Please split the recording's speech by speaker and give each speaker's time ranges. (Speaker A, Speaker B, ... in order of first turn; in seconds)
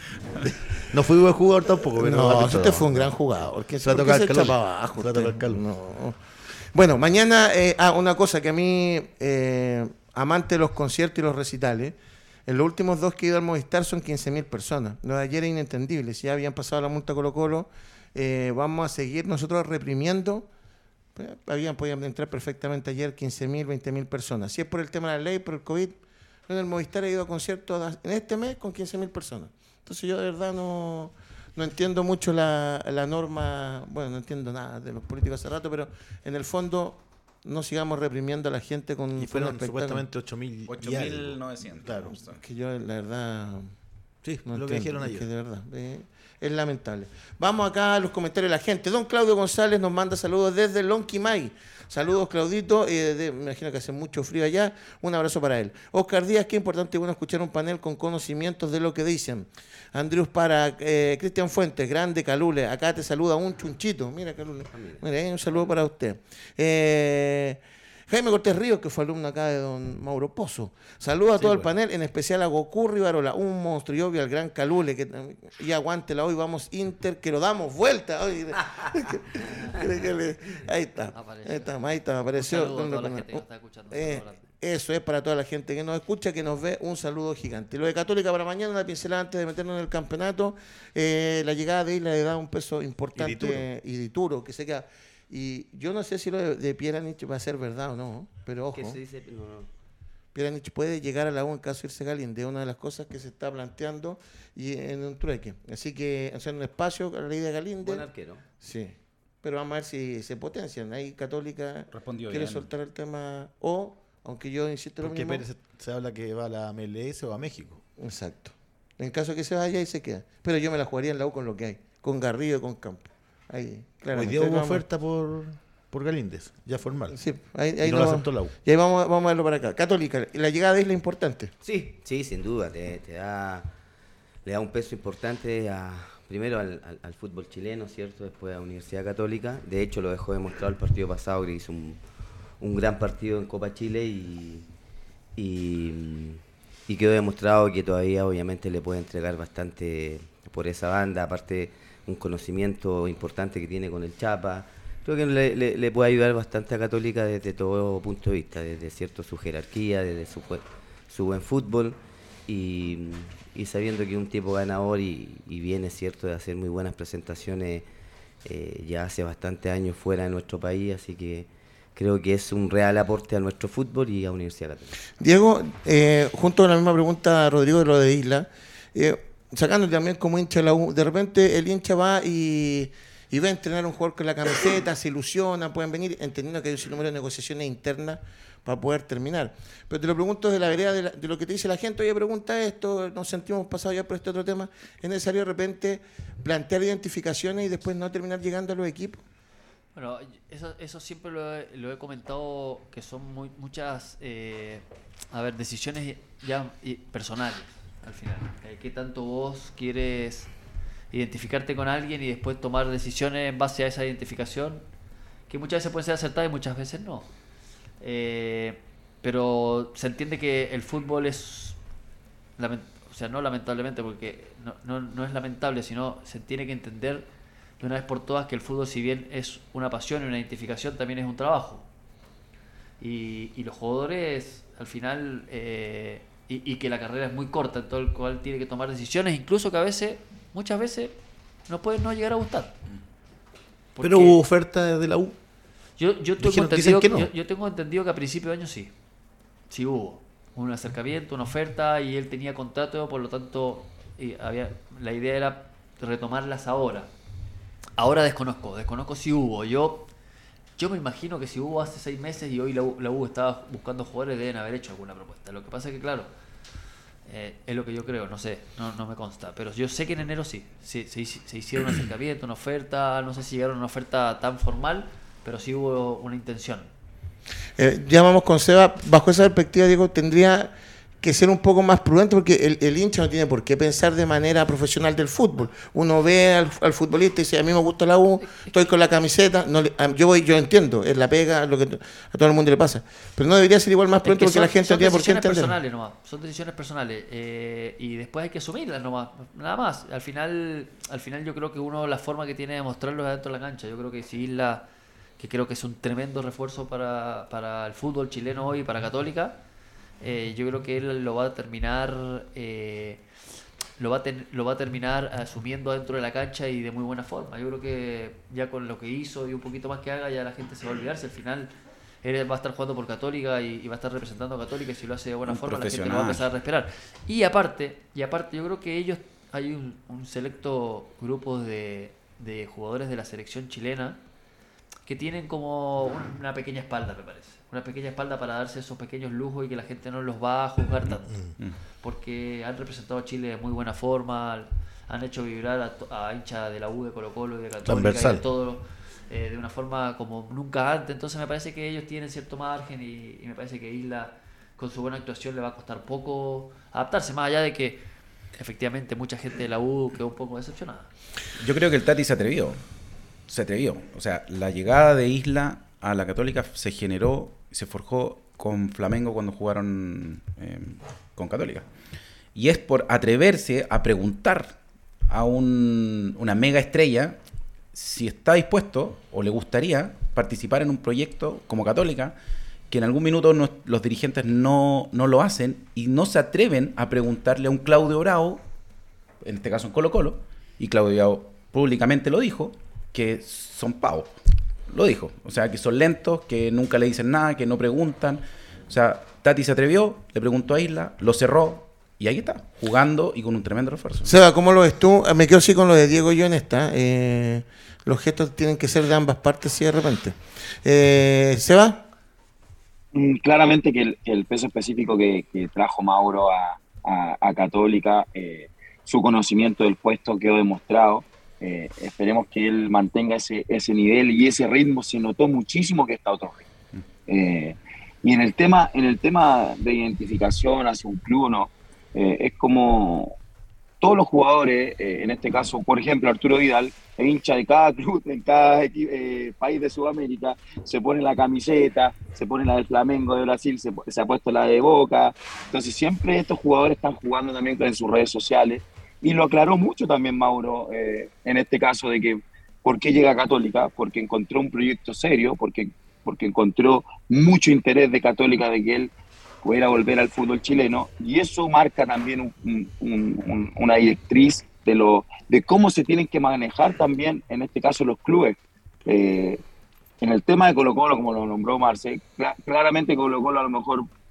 Speaker A: 0.9-3.2, 3.8-5.6, 39.1-42.2, 44.2-45.3, 93.1-93.7, 115.0-117.8, 124.1-127.2, 127.8-128.5, 244.0-245.3, 246.4-247.3, 341.3-341.5, 347.8-348.4
Speaker B: 2.0-6.2, 6.7-20.5, 21.1-40.0, 42.3-43.7, 44.5-99.0, 100.3-108.0, 108.6-115.4, 118.0-124.8, 127.1-131.5, 175.2-199.2, 277.8-295.8, 404.2-412.1
Speaker C: 40.7-42.4, 111.9-112.7, 325.4-326.4, 361.6-362.8, 363.5-371.9, 372.5-374.8, 375.3-377.4, 377.9-382.3, 382.9-388.6, 389.4-404.3
Speaker D: 64.7-65.7, 71.4-71.7, 98.7-99.7, 107.8-108.4, 131.6-133.7, 134.4-142.0, 142.6-144.7, 145.3-167.8, 168.4-174.9
Speaker E: 81.1-81.7, 82.3-84.4, 199.9-210.5, 211.1-214.8, 215.5-217.3, 218.0-221.8, 222.6-227.3, 227.8-231.8, 233.0-241.2, 241.7-242.7, 243.9-244.4, 246.0-248.9, 249.7-257.1, 258.0-260.1, 260.8-266.3, 267.3-276.9, 294.2-304.9, 305.4-309.6, 310.2-313.2, 314.0-334.2, 335.1-341.3, 342.0-358.0, 358.5-361.1
Speaker F: 413.1-426.7, 427.3-433.3, 434.0-459.1, 459.6-469.6, 470.2-474.1